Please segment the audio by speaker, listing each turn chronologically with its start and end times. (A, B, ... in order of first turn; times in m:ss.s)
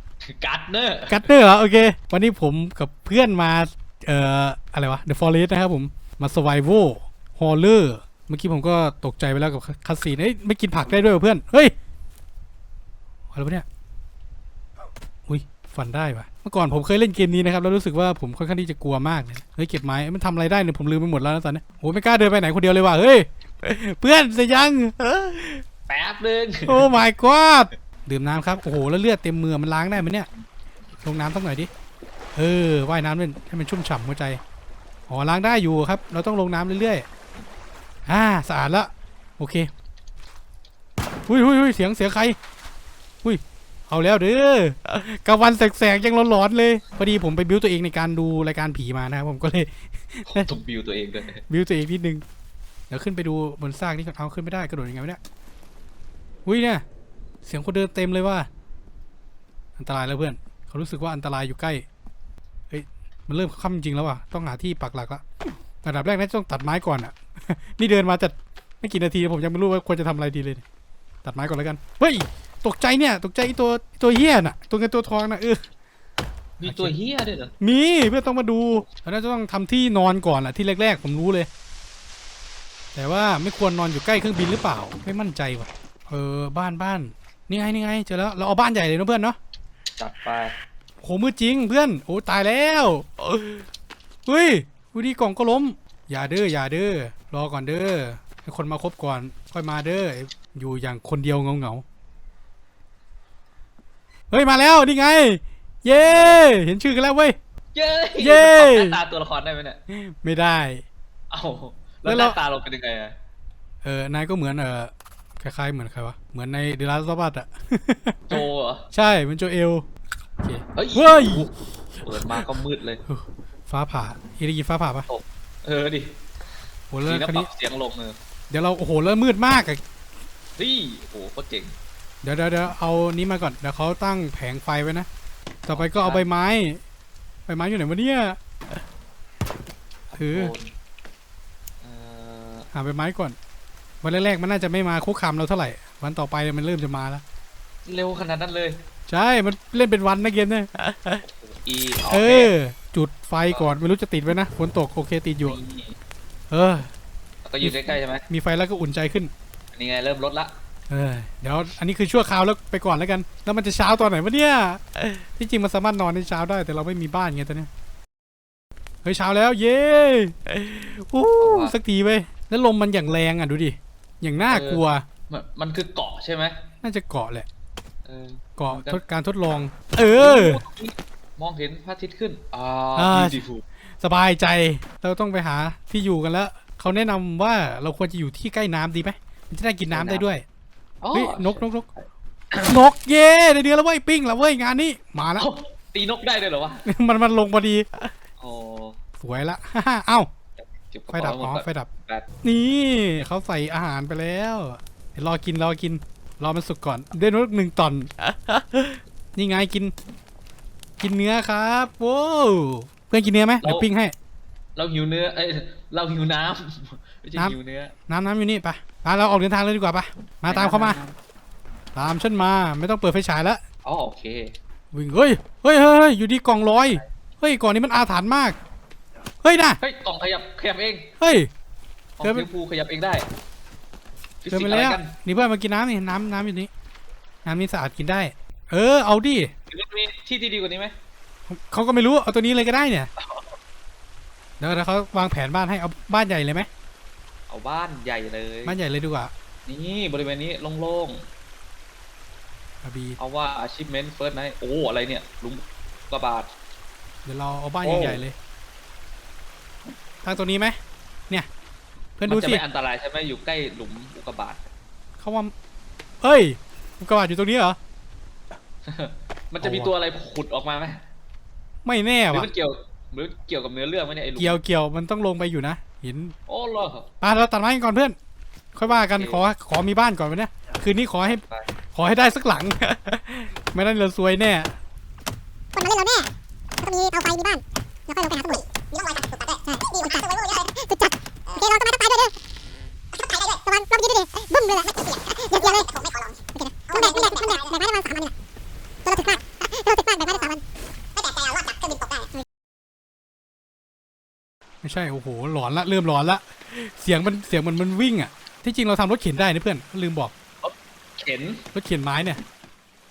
0:00.2-0:01.3 A
0:01.1-0:11.7 B
0:13.3-0:13.6 B
0:15.3-0:25.6 B
0:25.9-0:26.9 A
0:26.7-0:30.3 B
0:31.0-0:31.7 B
0:32.4-0:34.4 B
0:35.1-0:37.1 B
0:38.1-0:39.7 B
0:41.3-0:42.4 B
0:43.2-0:50.5 B
0:50.3-0:51.4 A
0:51.5-0:52.2 B
0:52.9-0:55.2 B
0:56.4-0:56.8 B
0:57.4-0:58.5 B
0:59.8-1:01.9 B
1:02.7-1:05.2 B
1:05.8-1:10.6 B
1:11.2-1:15.7 B
1:16.6-1:17.5 A
1:16.6-1:17.0 B
1:17.6-1:21.5 B
1:23.0-1:29.4 B
1:30.0-1:30.5 A
1:31.0-1:33.3 B
1:34.3-1:41.8 B
1:44.3-1:47.4 B
1:46.0-1:46.4 A
1:47.7-1:49.8 A
1:48.2-1:49.0 B
1:49.9-1:50.8 B
1:51.3-1:53.2 A
1:52.1-1:52.4 B
1:53.8-1:59.9 B
1:58.3-1:58.9 A
2:00.4-2:02.4 B
2:00.8-2:01.5 A
2:02.0-2:03.0 A
2:03.1-2:05.1 B
2:05.1-2:06.1 A
2:06.9-2:07.5 B
2:07.0-2:08.2 A
2:08.5-2:09.8 B
2:10.6-2:11.7 A
2:12.2-2:15.1 B
2:15.7-2:16.8 B
2:15.7-2:16.2 A
2:17.5-2:18.4 B
2:20.1-2:20.7 A
2:20.2-2:20.6 B
2:21.8-2:22.7 A
2:22.7-2:23.4 B
2:24.0-2:27.2 B
2:27.9-2:28.8 A
2:29.1-2:31.2 B
2:31.2-2:32.5 A
2:32.1-2:35.6 B
2:35.4-2:36.0 A
2:36.5-2:36.9 B
2:37.4-2:38.2 A
2:37.6-2:39.3 B
2:39.7-2:40.5 A
2:40.9-2:47.7 B
2:49.0-2:55.0 B
2:51.4-2:51.8 A
2:54.5-2:56.6 A
2:56.8-2:57.5 B
2:58.0-2:59.0 A
2:58.6-3:00.6 B
3:00.1-3:03.6 A
3:03.0-3:03.4 B
3:04.0-3:10.4 B
3:09.9-3:10.3 A
3:11.0-3:11.6 A
3:11.1-3:11.9 B
3:12.5-3:12.8 A
3:12.6-3:15.5 B
3:15.4-3:16.9 A
3:16.8-3:17.9 B
3:18.4-3:19.0 A
3:19.2-3:20.3 B
3:20.6-3:22.3 A
3:21.1-3:21.9 B
3:22.4-3:28.6 B
3:29.4-3:29.9 B
3:31.0-3:34.1 B
3:33.6-3:33.9 A
3:34.8-3:37.9 A
3:38.1-3:41.0 B
3:40.5-3:41.2 A
3:42.0-3:43.6 B
3:43.8-3:44.5 A
3:44.9-3:48.6 B
3:49.4-3:49.8 B
3:49.8-3:51.1 A
3:51.2-3:51.5 B
3:52.2-3:53.3 A
3:52.2-3:52.5 B
3:54.4-3:55.2 A
3:54.5-3:56.7 B
3:57.4-3:59.5 B
3:59.7-4:00.9 A
4:01.5-4:03.1 B
4:03.2-4:03.6 A
4:04.6-4:06.7 B
4:07.5-4:08.8 A
4:08.6-4:09.3 B
4:09.7-4:11.3 A
4:12.8-4:13.2 B
4:13.2-4:16.5 A
4:17.2-4:18.4 B
4:17.8-4:18.2 A
4:20.2-4:20.8 B
4:22.2-4:22.6 B
4:22.3-4:24.6 A
4:25.2-4:25.5 B
4:26.2-4:27.8 B
4:28.9-4:31.0 A
4:29.6-4:29.9 B
4:31.8-4:32.5 B
4:32.3-4:34.6 A
4:34.4-4:36.4 B
4:36.5-4:37.1 A
4:37.2-4:38.2 B
4:38.7-4:41.4 B
4:38.9-4:39.4 A
4:41.2-4:41.7 A
4:41.9-4:44.7 B
4:45.8-4:46.3 C
4:46.8-4:52.3 C
4:53.2-4:58.3 C
4:59.1-5:00.6 C
5:01.2-5:02.4 C
5:04.8-5:10.3 B
5:10.6-5:11.6 A
5:11.7-5:12.4 B